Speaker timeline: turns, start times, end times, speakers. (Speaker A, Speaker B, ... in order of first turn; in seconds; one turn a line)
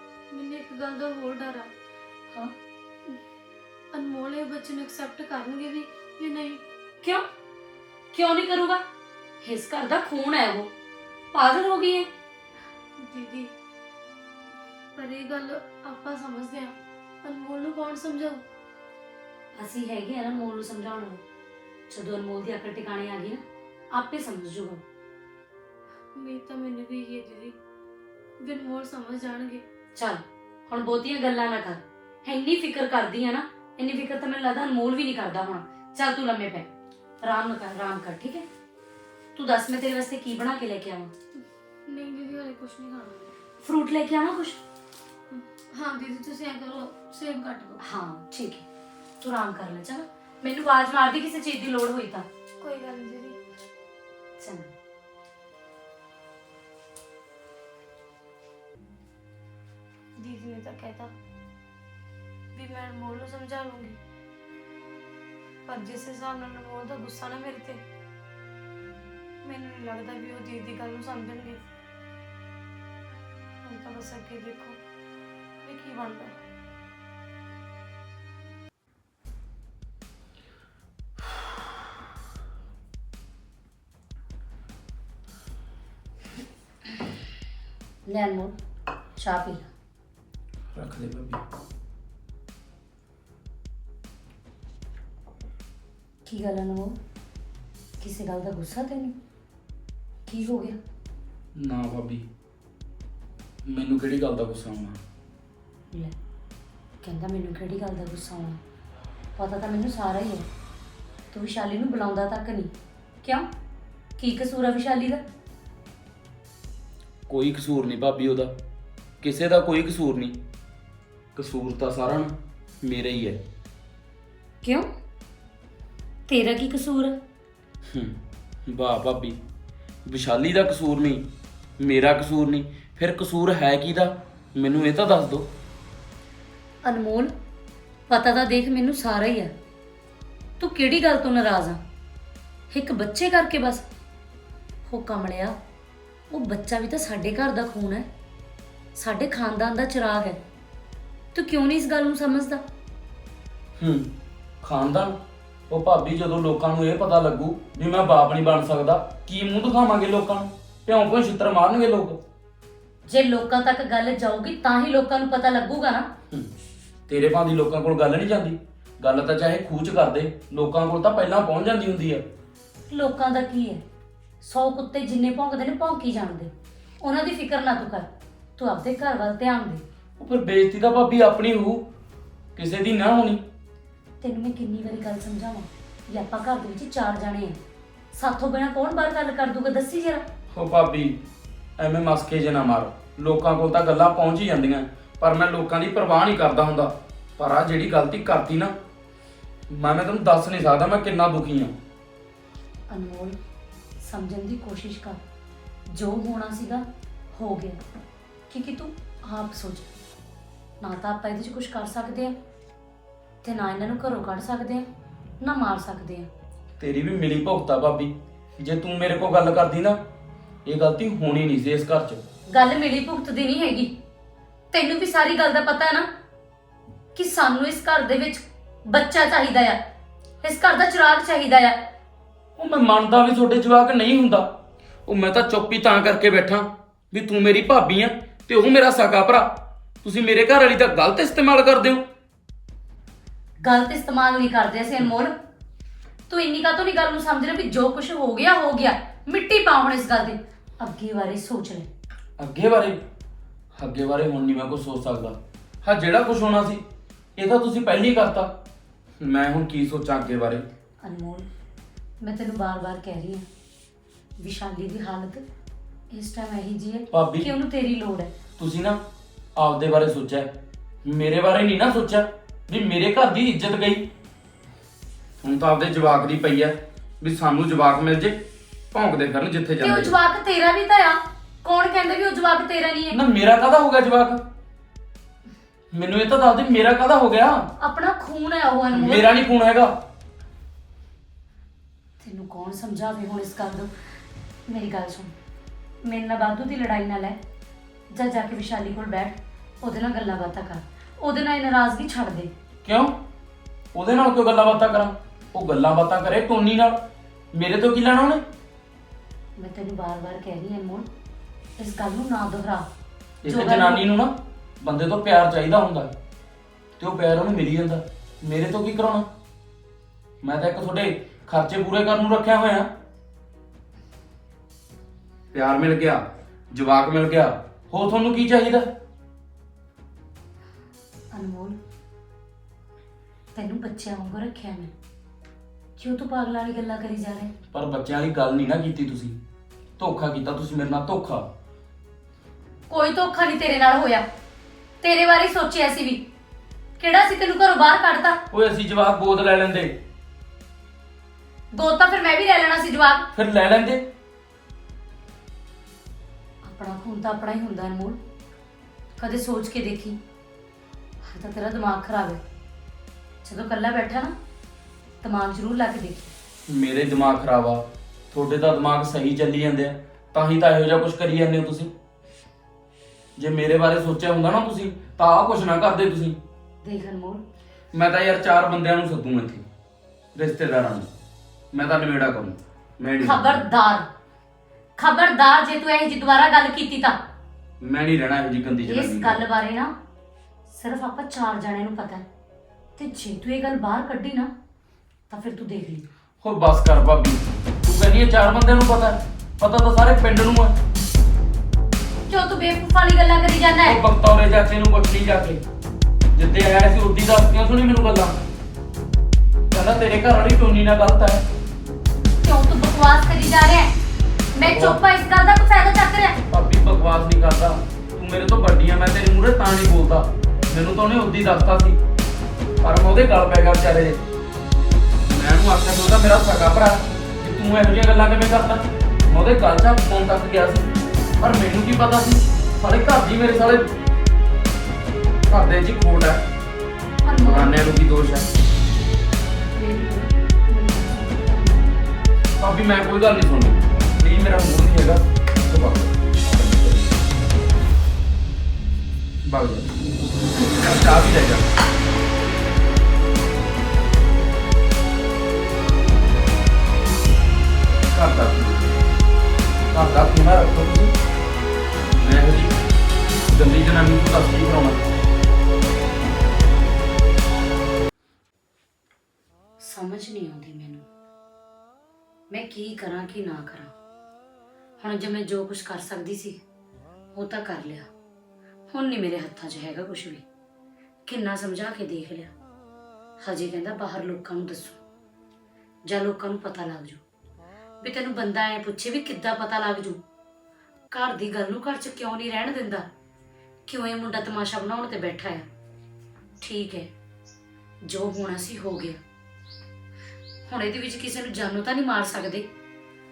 Speaker A: 0.3-1.7
Speaker A: 3.9-6.6
Speaker B: 8.1-8.8
Speaker B: 9.4-10.7
Speaker B: 11.3-12.1
Speaker A: 13.0-13.5
Speaker A: 14.9-18.4
Speaker B: 19.6-21.2
Speaker B: 21.9-24.8
Speaker A: 26.1-27.5
Speaker A: 28.4-29.6
Speaker B: 29.9-36.7
Speaker B: 37.2-38.5
Speaker B: 39.4-41.1
Speaker A: 41.4-43.2
Speaker B: 43.6-44.6
Speaker A: 45.3-47.8
Speaker B: 47.8-48.6
Speaker B: 49.2-52.2
Speaker A: 52.6-53.4
Speaker B: 54.4-54.7
Speaker A: 60.2-61.1
Speaker A: 62.5-64.0
Speaker A: 65.7-67.8
Speaker A: 69.4-71.6
Speaker A: 73.6-74.8
Speaker A: 75.6-76.4
Speaker B: 88.0-88.6
Speaker B: 89.2-89.7
Speaker C: 90.7-91.4
Speaker B: 96.2-97.0
Speaker B: 98.0-99.2
Speaker B: 100.2-100.8
Speaker C: 101.5-102.2
Speaker C: 103.7-105.0
Speaker B: 107.0-108.6
Speaker B: 109.3-110.5
Speaker B: 111.3-113.5
Speaker B: 114.2-115.2
Speaker C: 117.3-118.5
Speaker C: 119.2-120.4
Speaker C: 121.3-123.4
Speaker B: 124.6-124.9
Speaker B: 126.3-127.2
Speaker C: 127.9-129.4
Speaker C: 130.1-131.3
Speaker C: 131.8-135.5
Speaker B: 136.8-137.3
Speaker B: 138.1-139.5
Speaker B: 140.6-141.8
Speaker B: 142.7-143.8
Speaker B: 144.8-145.6
Speaker B: 146.3-148.1
Speaker B: 148.9-150.4
Speaker B: 151.3-152.6
Speaker C: 153.8-154.1
Speaker C: 154.6-155.2
Speaker C: 155.7-162.2
Speaker B: 163.1-166.1
Speaker C: 167.1-172.2
Speaker B: 172.9-173.8
Speaker B: 174.4-179.8
Speaker C: 180.2-181.9
Speaker C: 182.6-183.4
Speaker B: 184.2-187.6
Speaker B: 188.1-190.2
Speaker C: 190.5-191.2
Speaker C: 191.8-198.7
Speaker C: 199.7-201.7
Speaker B: 202.9-203.4
Speaker B: 204.0-205.2
Speaker B: 205.9-207.8
Speaker B: 208.5-209.9
Speaker B: 210.8-212.3
Speaker B: 213.4-214.9
Speaker B: 215.4-216.3
Speaker C: 216.8-220.0
Speaker C: 220.6-222.2
Speaker B: 222.5-223.9
Speaker B: 224.7-226.1
Speaker B: 227.1-229.8
Speaker B: 230.4-231.9
Speaker C: 232.6-242.0
Speaker B: 243.6-245.3
Speaker B: 246.3-251.9
Speaker C: 252.4-253.0
Speaker C: 253.7-256.8
Speaker C: 257.4-258.5
Speaker C: 259.2-260.6
Speaker B: 261.0-261.4
Speaker B: 262.2-263.4
Speaker B: 264.4-265.4
Speaker B: 266.1-268.3
Speaker C: 267.1-267.5
Speaker C: 268.6-269.0
Speaker C: 269.6-274.1
Speaker C: 275.4-278.4
Speaker C: 278.9-280.1
Speaker B: 279.8-283.2
Speaker C: 283.1-284.4
Speaker C: 285.9-287.7
Speaker B: 287.8-289.3
Speaker C: 288.9-289.9
Speaker B: 292.2-293.9
Speaker B: 294.7-295.4
Speaker B: 296.0-297.4
Speaker B: 298.1-302.5
Speaker C: 302.8-303.1
Speaker C: 303.9-307.0
Speaker C: 307.5-308.4
Speaker B: 309.6-311.1
Speaker B: 311.8-312.9
Speaker C: 313.4-316.1
Speaker B: 313.4-314.0
Speaker C: 317.0-319.3
Speaker C: 320.4-322.9
Speaker C: 325.5-328.9
Speaker B: 331.3-331.8
Speaker B: 333.5-334.9
Speaker B: 336.0-337.5
Speaker C: 337.7-339.4
Speaker C: 340.0-341.4
Speaker B: 342.9-344.2
Speaker B: 345.0-346.2
Speaker B: 347.0-348.4
Speaker C: 348.5-349.9
Speaker B: 351.7-353.3
Speaker C: 353.4-354.0
Speaker B: 356.6-358.2
Speaker B: 359.2-360.2
Speaker B: 361.2-362.4
Speaker B: 363.4-364.3
Speaker B: 365.2-366.3
Speaker C: 366.7-371.9
Speaker C: 373.4-376.4
Speaker B: 376.8-377.4
Speaker C: 377.9-379.6
Speaker C: 380.3-381.1
Speaker C: 381.7-383.6
Speaker B: 383.2-384.1
Speaker B: 385.0-387.2
Speaker C: 387.8-389.4
Speaker B: 388.9-389.9
Speaker B: 390.7-392.2
Speaker B: 393.0-394.5
Speaker B: 395.3-396.1
Speaker C: 396.4-400.8
Speaker B: 402.3-404.0
Speaker C: 403.8-405.6
Speaker C: 406.3-408.4
Speaker C: 409.7-411.4
Speaker B: 412.4-413.9
Speaker B: 414.5-416.4
Speaker C: 414.7-415.0
Speaker C: 416.5-422.0
Speaker C: 422.8-424.2
Speaker C: 425.3-430.9
Speaker C: 431.4-433.9
Speaker C: 435.5-436.4
Speaker B: 437.2-437.9
Speaker C: 437.4-438.5
Speaker B: 439.7-441.9
Speaker C: 442.6-447.2
Speaker C: 449.4-451.7
Speaker C: 458.1-458.9
Speaker C: 459.9-461.1
Speaker C: 462.1-462.8
Speaker C: 463.5-465.0
Speaker B: 469.8-471.1
Speaker B: 472.5-473.9
Speaker B: 475.0-476.6
Speaker B: 477.3-478.1
Speaker B: 478.9-480.4
Speaker B: 481.2-482.5
Speaker B: 483.4-485.0
Speaker B: 486.1-487.2
Speaker B: 488.0-490.2
Speaker B: 491.1-493.1
Speaker B: 493.9-495.6
Speaker B: 496.6-497.1
Speaker B: 498.0-499.2
Speaker B: 500.7-502.7